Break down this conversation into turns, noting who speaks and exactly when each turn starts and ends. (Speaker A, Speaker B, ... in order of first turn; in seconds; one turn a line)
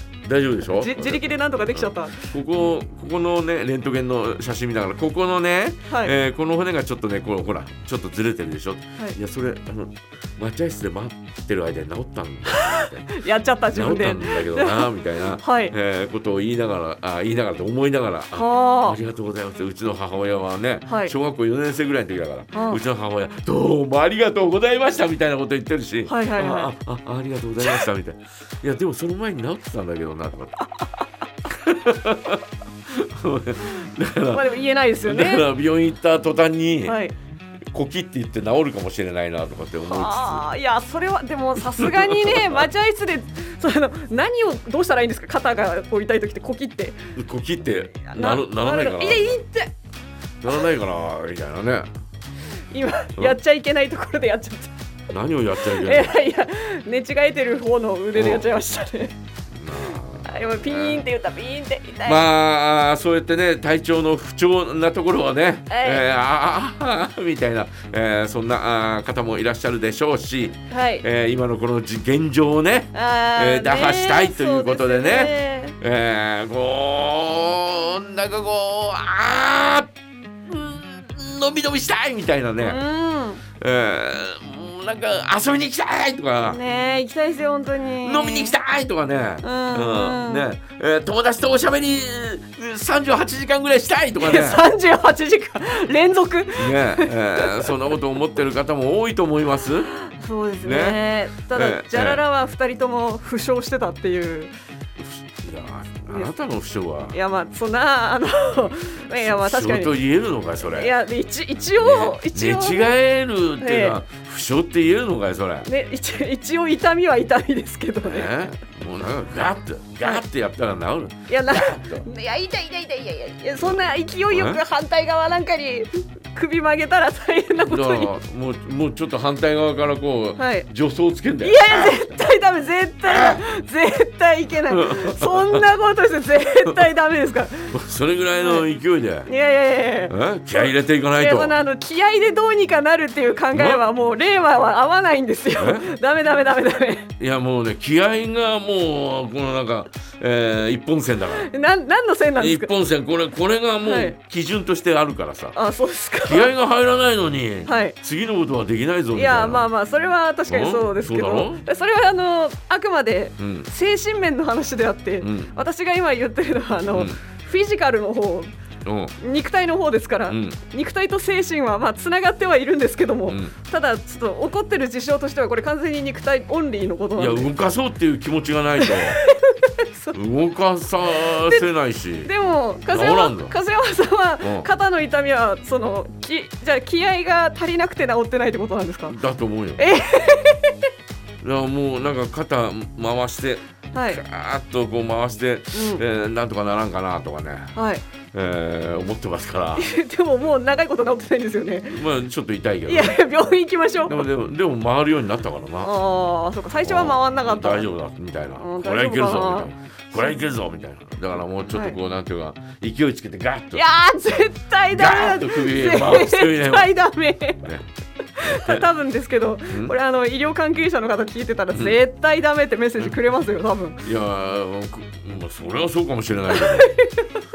Speaker A: 0.2-13.2
Speaker B: 0.7-2.4
Speaker B: 5.9-6.1
Speaker B: 12.5-15.7
Speaker A: 13.7-30.6
Speaker B: 18.3-19.0
Speaker B: 20.9-21.1
Speaker B: 22.5-22.8
Speaker B: 26.1-26.7
Speaker A: 31.5-34.5
Speaker B: 34.3-35.5
Speaker A: 35.0-37.0
Speaker B: 36.9-37.1
Speaker A: 37.7-40.5
Speaker B: 39.8-47.0
Speaker A: 41.8-42.7
Speaker A: 47.1-49.4
Speaker B: 48.1-49.7
Speaker A: 50.4-51.9
Speaker B: 52.7-54.7
Speaker A: 55.1-56.2
Speaker B: 55.7-59.1
Speaker A: 58.1-58.5
Speaker A: 59.5-61.0
Speaker B: 59.8-62.2
Speaker A: 62.0-79.9
Speaker B: 65.7-66.1
Speaker B: 70.7-71.0
Speaker B: 72.9-75.8
Speaker A: 80.5-82.8
Speaker B: 82.6-83.4
Speaker A: 83.6-86.6
Speaker B: 86.4-88.6
Speaker A: 88.0-94.6
Speaker B: 89.4-90.5
Speaker B: 94.2-97.7
Speaker A: 96.5-99.9
Speaker B: 99.9-104.5
Speaker A: 100.6-101.0
Speaker A: 101.5-102.2
Speaker A: 105.0-107.2
Speaker B: 107.1-109.9
Speaker A: 109.2-110.9
Speaker B: 110.6-112.9
Speaker A: 111.8-115.7
Speaker B: 113.6-114.0
Speaker B: 115.6-118.3
Speaker A: 118.0-122.0
Speaker B: 121.3-128.1
Speaker A: 123.6-124.6
Speaker A: 127.7-132.2
Speaker B: 130.4-130.7
Speaker B: 131.4-137.7
Speaker A: 133.1-133.4
Speaker A: 134.7-135.7
Speaker A: 137.7-139.3
Speaker B: 138.4-138.7
Speaker B: 139.2-147.1
Speaker A: 140.1-141.6
Speaker A: 143.5-143.8
Speaker A: 145.6-145.9
Speaker A: 147.2-151.5
Speaker B: 151.3-152.7
Speaker A: 152.4-155.6
Speaker B: 153.8-154.2
Speaker B: 155.5-156.5
Speaker A: 156.2-159.6
Speaker B: 157.7-158.0
Speaker B: 159.1-168.5
Speaker A: 160.5-161.6
Speaker A: 163.4-163.7
Speaker A: 165.2-165.5
Speaker A: 166.9-167.2
Speaker A: 168.8-169.1
Speaker B: 169.2-177.5
Speaker A: 170.3-170.6
Speaker A: 173.3-173.5
Speaker A: 177.2-179.2
Speaker B: 178.8-180.2
Speaker A: 180.1-182.3
Speaker B: 181.2-181.7
Speaker B: 182.2-189.2
Speaker A: 182.9-183.5
Speaker A: 184.4-184.7
Speaker A: 189.1-189.8
Speaker B: 189.8-190.9
Speaker A: 191.4-197.8
Speaker B: 193.9-194.2
Speaker B: 195.7-196.0
Speaker B: 197.8-198.0
Speaker A: 198.3-199.9
Speaker B: 199.8-202.0
Speaker A: 201.9-203.2
Speaker B: 202.9-204.3
Speaker A: 204.1-205.9
Speaker B: 205.8-207.9
Speaker A: 206.8-213.8
Speaker B: 208.6-210.3
Speaker B: 211.7-212.0
Speaker B: 213.7-217.7
Speaker A: 214.9-216.9
Speaker B: 218.3-224.0
Speaker A: 218.4-218.9
Speaker A: 221.7-222.0
Speaker A: 224.0-226.9
Speaker B: 226.5-227.2